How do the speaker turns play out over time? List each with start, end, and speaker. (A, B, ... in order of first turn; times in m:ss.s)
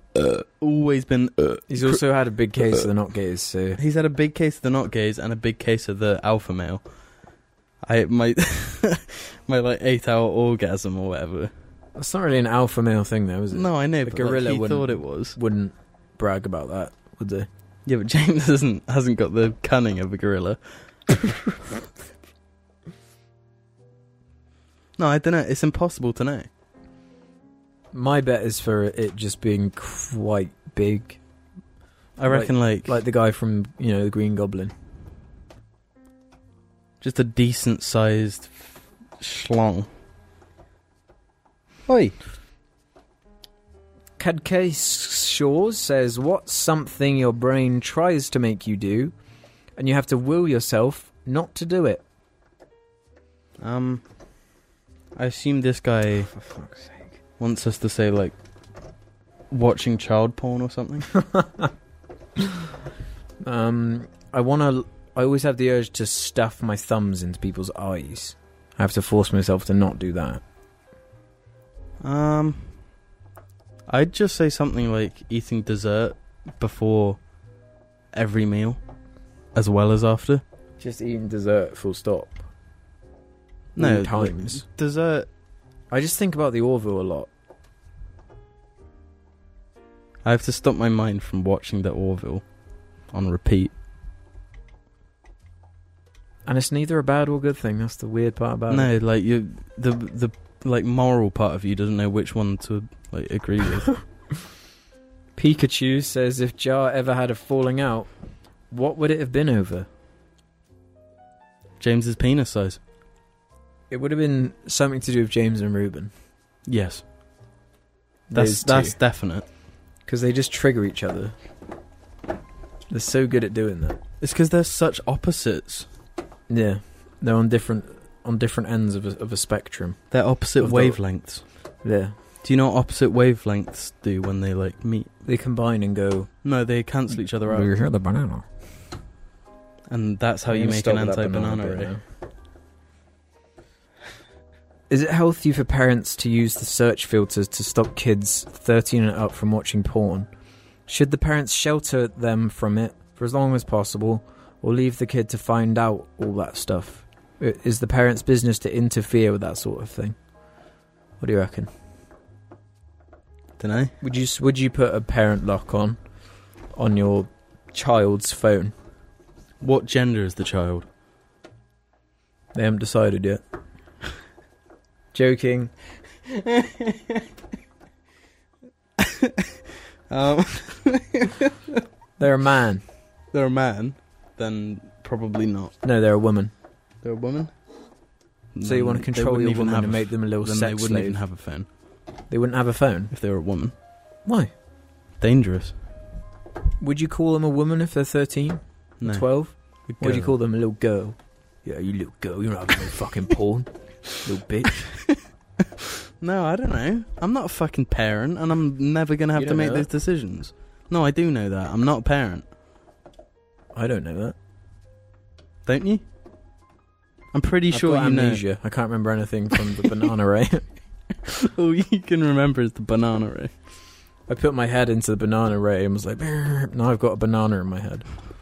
0:00.1-0:01.8 A
0:01.7-0:03.8 B
0:03.8-0:06.8 A
0:07.8-0:11.5 A
0:12.0-0:17.5 B
0:13.5-0:15.4 A
0:17.8-0:21.1 A
0:25.0-0:26.5 A
0:27.9-0:31.2 B
0:32.2-0:33.0 A
0:32.3-0:34.7 B
0:37.0-0:39.9 A
0:41.9-0:42.1 A
0:44.2-0:49.1 B
0:49.8-0:52.0 B
0:53.6-0:54.0 A
0:55.1-0:56.3 A
0:56.3-0:57.1 B
0:57.4-0:58.4 A
0:59.5-1:01.1 A
1:03.4-1:10.4 B
1:12.0-1:12.7 A
1:13.9-1:17.2 A
1:18.1-1:18.8 A
1:19.5-1:20.4 A
1:20.8-1:22.4 B
1:23.7-1:25.3 A
1:23.8-1:24.6 B
1:25.9-1:27.3 B
1:30.2-1:32.4 A
1:33.1-1:33.7 A
1:36.4-1:38.9 B
1:38.7-1:44.0 A
1:45.4-1:48.1 B
1:48.7-1:49.9 B
1:51.8-1:52.8 A
1:53.9-1:56.1 B
1:56.6-1:57.0 A
1:58.3-1:59.0 B
1:58.3-1:59.4 A
2:00.0-2:01.3 B
2:02.9-2:04.0 B
2:04.2-2:05.9 A
2:06.5-2:11.0 B
2:10.1-2:11.4 A
2:11.8-2:12.1 B
2:12.4-2:15.1 A
2:15.2-2:16.3 B
2:16.4-2:17.7 A
2:17.4-2:18.4 B
2:19.9-2:21.9 A
2:20.5-2:22.0 B
2:24.9-2:30.3 B
2:30.9-2:40.2 B
2:41.2-2:41.7 B
2:43.6-2:43.9 A
2:44.0-2:46.0 B
2:46.7-2:48.7 B
2:49.6-2:50.9 A
2:52.5-2:53.4 B
2:55.1-2:55.7 B
2:56.3-2:57.2 A
2:59.0-3:01.8 A
3:02.2-3:02.8 B
3:03.3-3:05.7 A
3:05.8-3:06.5 B
3:07.0-3:07.5 A
3:08.5-3:11.7 A
3:08.6-3:11.2 B
3:12.3-3:13.1 B
3:13.1-3:13.7 A
3:15.2-3:15.7 A
3:16.8-3:24.8 B
3:19.0-3:19.2 A
3:19.8-3:20.3 A
3:26.2-3:32.4 A
3:29.3-3:29.9 B
3:33.7-3:34.3 B
3:35.6-3:36.0 A
3:37.3-3:38.4 A
3:37.7-3:40.6 B
3:41.2-3:43.5 A
3:44.3-3:48.0 B